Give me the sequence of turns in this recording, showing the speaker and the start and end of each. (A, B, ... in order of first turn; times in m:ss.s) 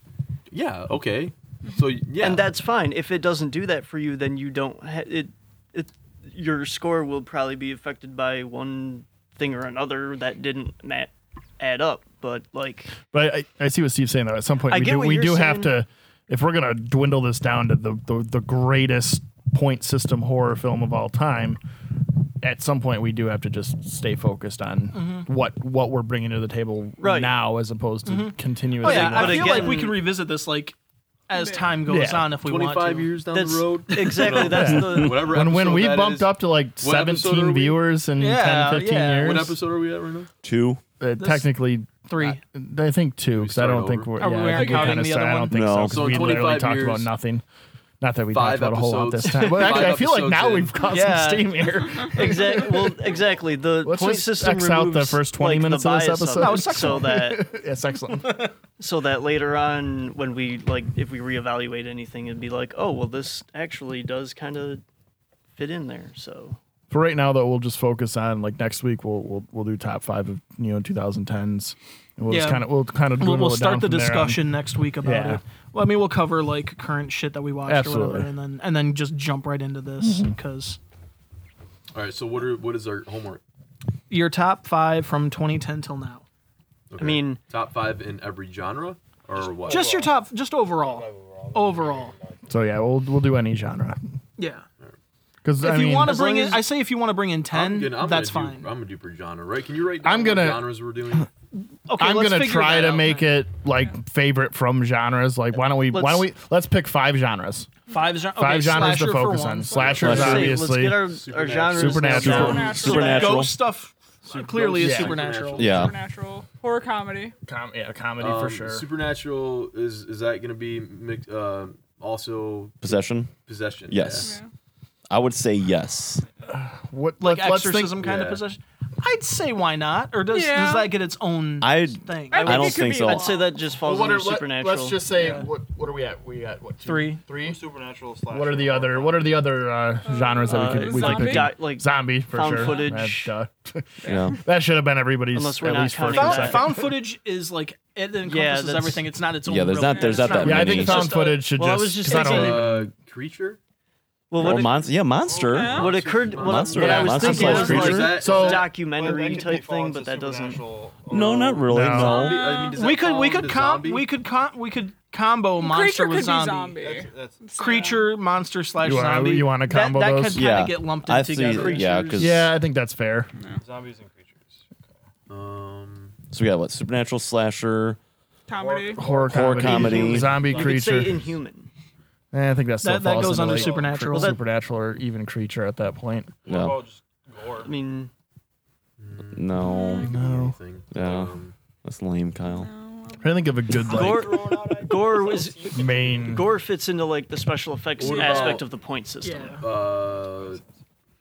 0:00.5-0:02.5 A
0:02.2-0:13.0 B
0:13.1-0:21.6 C
0:14.7-0:15.7 B
0:22.4-0:29.8 C
0:24.9-0:25.3 D
0:27.0-0:27.3 B
0:28.1-0:30.8 D
0:28.8-0:30.0 B
0:31.3-0:33.1 D
0:31.3-0:31.7 E
0:31.9-0:32.3 C
0:32.4-0:37.9 A
0:33.3-0:35.6 B
0:34.3-0:39.6 C
0:38.2-0:39.5 D
0:39.2-0:40.3 A
0:40.4-0:40.8 F
0:41.0-0:47.4 C
0:41.2-0:41.5 D
0:42.1-0:42.4 D
0:43.3-0:44.2 A
0:44.2-0:45.6 D
0:44.5-0:45.0 E
0:45.5-0:46.1 F
0:45.9-0:47.1 A
0:48.0-0:53.0 C
0:48.3-0:50.9 A
0:50.9-0:51.7 D
0:52.1-0:57.4 B
0:53.8-0:58.4 C
0:56.4-0:57.3 D
0:58.8-1:04.8 B
1:05.6-1:06.6 B
1:06.9-1:14.5 C
1:12.3-1:12.7 D
1:13.2-1:20.8 D
1:15.0-1:15.4 C
1:17.6-1:18.3 C
1:20.0-1:20.4 C
1:21.9-1:23.4 A
1:24.1-1:26.2 D
1:26.9-1:29.9 A
1:27.0-1:27.4 B
1:29.4-1:30.2 G
1:29.7-1:32.1 D
1:30.8-1:32.5 G
1:32.5-1:34.0 C
1:34.4-1:34.6 D
1:35.4-1:36.6 C
1:35.6-1:38.7 D
1:37.5-1:41.3 A
1:40.0-1:40.7 C
1:41.9-1:43.3 D
1:42.0-1:47.7 C
1:45.9-1:46.3 B
1:47.9-1:50.6 D
1:48.4-1:51.2 C
1:50.0-1:50.6 F
1:50.0-1:53.3 B
1:51.1-1:52.1 A
1:51.7-1:52.8 C
1:52.1-1:53.6 F
1:52.1-1:53.4 E
1:52.3-1:55.7 D
1:54.2-1:56.0 A
1:54.8-1:55.2 C
1:55.6-1:55.9 F
1:55.6-1:57.3 E
1:57.5-1:58.9 C
1:58.2-2:04.3 A
2:02.8-2:03.3 F
2:03.9-2:04.3 F
2:04.2-2:04.5 E
2:05.1-2:06.2 F
2:06.5-2:08.0 C
2:07.2-2:12.5 D
2:07.9-2:08.4 A
2:10.3-2:10.9 E
2:11.6-2:13.3 F
2:12.3-2:13.6 E
2:12.3-2:15.0 B
2:13.8-2:17.6 C
2:15.2-2:15.5 D
2:16.8-2:17.2 D
2:17.3-2:19.4 G
2:18.3-2:26.9 C
2:20.0-2:21.5 E
2:20.5-2:23.3 B
2:22.5-2:22.9 E
2:24.0-2:24.4 E
2:24.0-2:24.4 F
2:25.3-2:26.8 B
2:26.1-2:31.4 D
2:28.2-2:29.1 B
2:29.4-2:31.1 F
2:29.8-2:30.9 E
2:30.4-2:32.9 C
2:30.9-2:32.7 B
2:32.1-2:33.6 A
2:34.3-2:34.9 B
2:34.4-2:35.8 F
2:35.2-2:36.0 G
2:35.4-2:35.9 E
2:35.7-2:38.8 A
2:35.7-2:40.7 B
2:36.4-2:38.2 F
2:36.8-2:38.7 C
2:37.2-2:38.0 D
2:38.1-2:41.8 G
2:41.1-2:42.5 F
2:41.7-2:42.3 C
2:41.8-2:44.1 A
2:42.0-2:42.8 E
2:42.8-2:46.8 D
2:45.6-2:48.1 E
2:46.8-2:48.0 G
2:47.6-2:51.9 D
2:48.8-2:50.4 C
2:50.3-2:52.5 F
2:51.3-2:52.4 B
2:52.2-2:53.3 C
2:53.4-2:53.6 E
2:53.5-2:55.0 G
2:55.3-2:56.2 A
2:56.3-2:58.0 F
2:58.5-2:59.0 E
2:58.5-3:01.4 G
2:59.0-3:01.2 C
2:59.3-3:00.4 F
2:59.8-3:01.7 B
3:02.3-3:06.4 C
3:02.8-3:04.4 D
3:03.2-3:04.0 G
3:04.1-3:04.4 B
3:06.4-3:07.7 G
3:06.5-3:06.8 F
3:07.6-3:08.1 B
3:09.0-3:11.6 A
3:09.3-3:10.1 F
3:09.6-3:10.2 E
3:09.7-3:10.6 C
3:10.9-3:12.7 F
3:12.5-3:13.4 E
3:13.2-3:14.4 C
3:13.9-3:19.6 B
3:13.9-3:16.5 G
3:15.8-3:16.5 C
3:18.0-3:18.7 A
3:18.0-3:18.6 E
3:19.2-3:19.6 D
3:19.6-3:20.6 A